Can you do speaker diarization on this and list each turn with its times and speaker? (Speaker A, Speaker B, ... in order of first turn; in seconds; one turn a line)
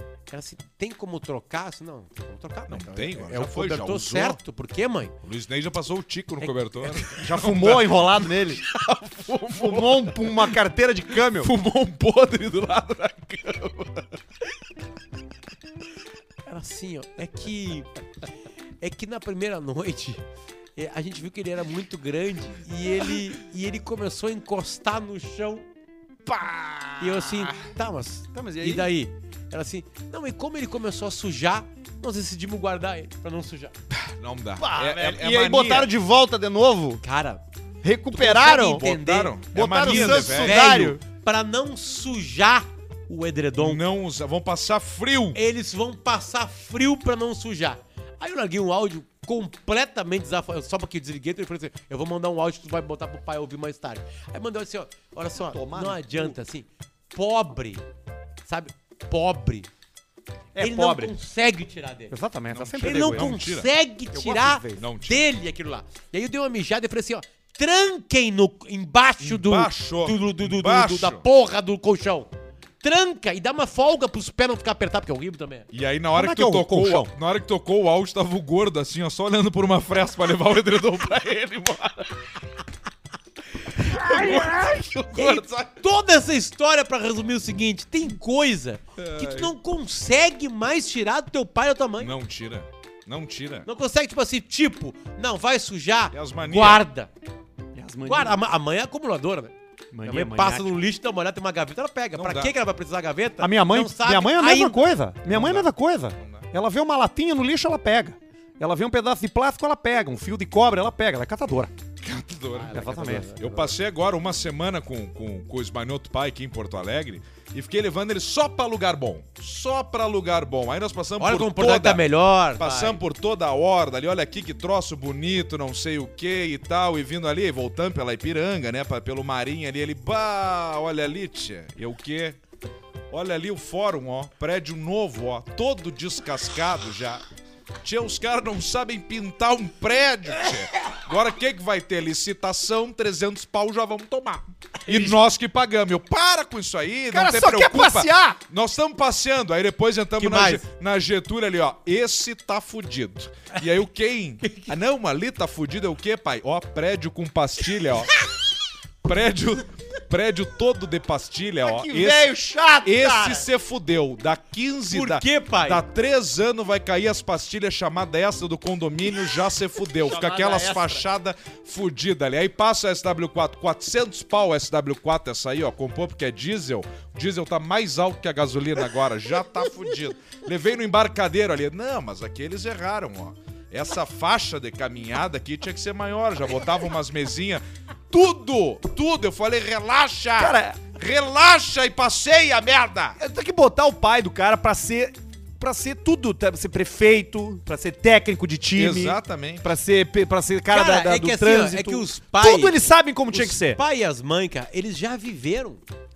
Speaker A: 0.3-5.1
Speaker B: 2.7-4.4
Speaker B: 5.2-10.6
Speaker A: 6.4-7.2
Speaker C: 7.1-8.6
Speaker C: 9.5-11.5
Speaker B: 11.2-14.2
Speaker A: 16.4-17.9
Speaker A: 18.8-20.2
Speaker A: 20.8-25.6
Speaker B: 26.3-26.9
Speaker A: 27.0-33.7
Speaker C: 28.3-28.9
Speaker B: 33.9-35.9
Speaker C: 34.6-37.0
Speaker A: 37.0-37.4
Speaker C: 37.8-38.9
Speaker A: 38.1-43.8
Speaker B: 38.6-40.9
Speaker C: 39.5-41.0
Speaker B: 43.6-45.4
Speaker A: 45.3-57.8
Speaker C: 55.4-56.3
Speaker A: 58.5-59.7
Speaker C: 60.5-61.1
Speaker A: 60.6-62.1
Speaker C: 62.1-63.4
Speaker B: 62.5-63.7
Speaker A: 62.8-72.3
Speaker C: 64.1-64.8
Speaker B: 64.8-65.3
Speaker B: 69.2-71.2
Speaker A: 72.8-75.7
Speaker B: 75.7-82.4
Speaker C: 76.1-77.1
Speaker B: 83.7-85.8
Speaker A: 85.1-92.1
Speaker B: 89.0-89.5
Speaker B: 92.0-93.7
Speaker A: 93.7-97.1
Speaker B: 96.1-96.8
Speaker C: 97.7-98.4
Speaker A: 98.0-99.5
Speaker C: 99.9-100.7
Speaker A: 100.0-104.8
Speaker B: 102.1-102.5
Speaker C: 103.4-111.7
Speaker B: 105.3-106.5
Speaker B: 112.0-132.4
Speaker A: 112.5-113.7
Speaker C: 112.7-113.3
Speaker A: 121.2-123.0
Speaker B: 133.1-137.2
Speaker B: 137.8-158.1
Speaker C: 147.1-148.4
Speaker A: 150.2-150.6
Speaker A: 154.4-154.7
Speaker B: 159.0-193.2
Speaker C: 161.6-163.5
Speaker A: 164.9-165.8
Speaker C: 170.1-171.0
Speaker C: 190.4-190.8
Speaker C: 193.2-203.8
Speaker B: 198.7-199.7
Speaker A: 200.7-202.8
Speaker A: 203.3-205.8